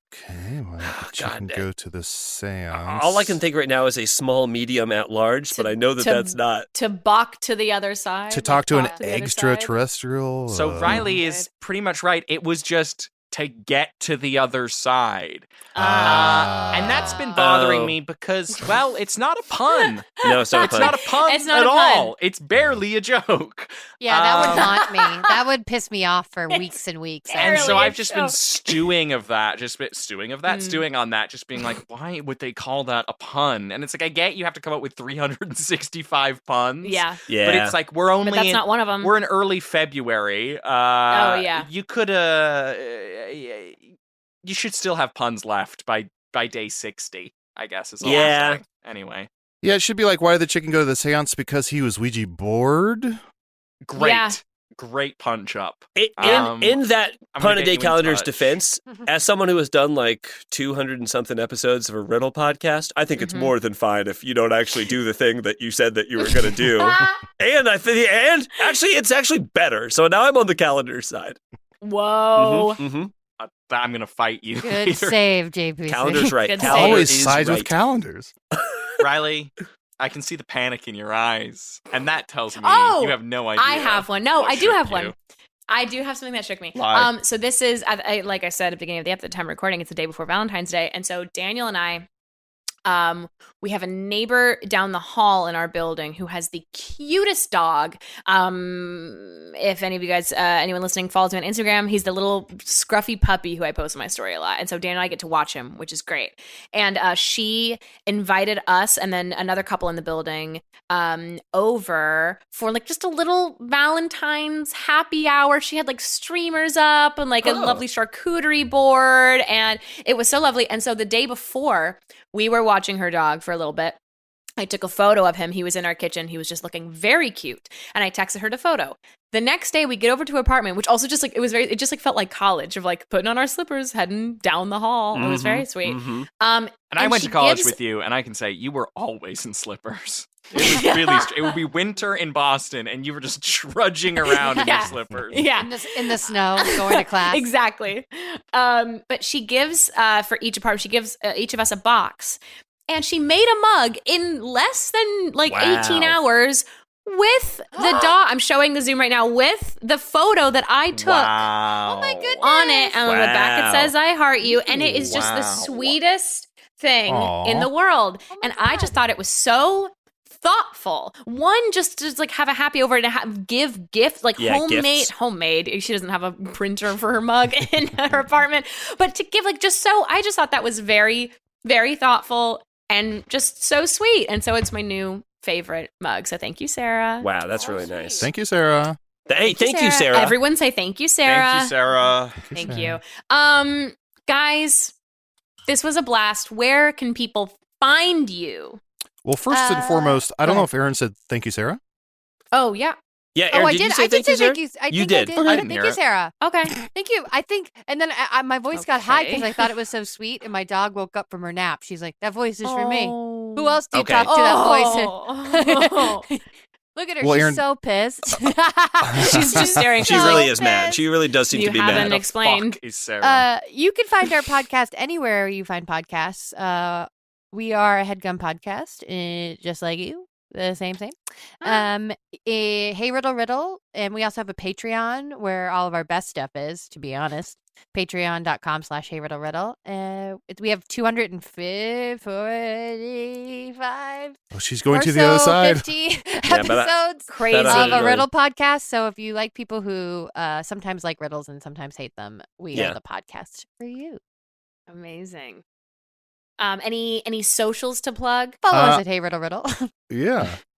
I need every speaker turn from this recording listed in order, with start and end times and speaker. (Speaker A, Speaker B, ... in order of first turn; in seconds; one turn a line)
Speaker A: 0.1-3.4
Speaker B: 0.8-1.6
Speaker B: 2.7-6.7
Speaker C: 5.5-9.7
Speaker A: 8.3-11.1
Speaker D: 8.7-9.0
Speaker E: 10.5-15.5
Speaker C: 10.8-11.4
Speaker C: 15.7-16.5
Speaker A: 15.8-17.3
Speaker E: 16.0-24.8
Speaker B: 17.4-17.9
Speaker C: 19.8-22.1
Speaker B: 20.2-21.0
Speaker D: 24.0-27.9
Speaker C: 24.4-25.3
Speaker C: 27.3-28.4
Speaker E: 27.4-49.3
Speaker C: 30.5-30.8
Speaker C: 36.8-37.2
Speaker B: 37.3-37.8
Speaker C: 38.2-39.1
Speaker C: 41.1-41.6
Speaker B: 48.0-48.6
Speaker C: 48.0-48.3
Speaker A: 49.6-53.2
Speaker E: 53.8-56.8
Speaker C: 54.0-54.4
Speaker B: 56.0-71.4
Speaker E: 57.3-58.5
Speaker C: 63.2-63.5
Speaker C: 71.8-72.8
Speaker B: 72.3-73.1
Speaker E: 73.4-75.2
Speaker D: 74.6-76.5
Speaker B: 75.9-77.4
Speaker C: 76.4-77.1
Speaker A: 76.6-78.3
Speaker E: 76.6-77.7
Speaker E: 79.0-85.2
Speaker C: 82.6-85.1
Speaker C: 85.7-92.0
Speaker E: 86.7-87.1
Speaker C: 92.8-124.0
Speaker B: 117.5-117.8
Speaker C: 124.6-137.8
Speaker B: 135.1-136.3
Speaker E: 136.9-145.6
Speaker C: 140.6-141.3
Speaker C: 144.3-161.4
Speaker D: 145.6-147.4
Speaker B: 155.4-156.2
Speaker D: 157.7-158.1
Speaker E: 160.9-162.4
Speaker D: 161.9-162.9
Speaker C: 162.4-187.3
Speaker E: 163.1-163.9
Speaker B: 163.1-163.5
Speaker D: 164.4-164.7
Speaker E: 164.7-165.9
Speaker A: 167.1-167.7
Speaker D: 168.3-169.0
Speaker B: 174.4-175.1
Speaker B: 187.2-188.3
Speaker D: 187.5-188.2
Speaker A: 188.2-189.0
Speaker B: 189.3-190.3
Speaker C: 189.4-191.7
Speaker E: 191.2-192.5
Speaker A: 192.4-193.0
Speaker C: 192.5-194.9
Speaker C: 195.7-198.8
Speaker A: 199.2-201.8
Speaker D: 199.5-200.7
Speaker C: 202.5-203.0
Speaker B: 203.3-205.3
Speaker D: 203.5-216.4
Speaker E: 205.4-206.0
Speaker C: 206.4-206.7
Speaker C: 208.7-209.7
Speaker C: 212.6-216.2
Speaker B: 213.9-214.3
Speaker D: 216.9-221.0
Speaker A: 217.2-217.6
Speaker A: 219.1-219.8
Speaker C: 219.2-220.5
Speaker B: 220.0-222.1
Speaker C: 221.5-222.8
Speaker E: 221.8-223.5
Speaker D: 223.2-244.4
Speaker C: 231.6-231.9
Speaker A: 244.5-245.9
Speaker D: 244.9-254.2
Speaker B: 246.5-248.3
Speaker C: 247.3-248.1
Speaker B: 252.7-253.0
Speaker C: 254.9-255.6
Speaker C: 256.6-258.6
Speaker D: 258.6-259.9
Speaker A: 258.7-259.0
Speaker A: 260.1-260.6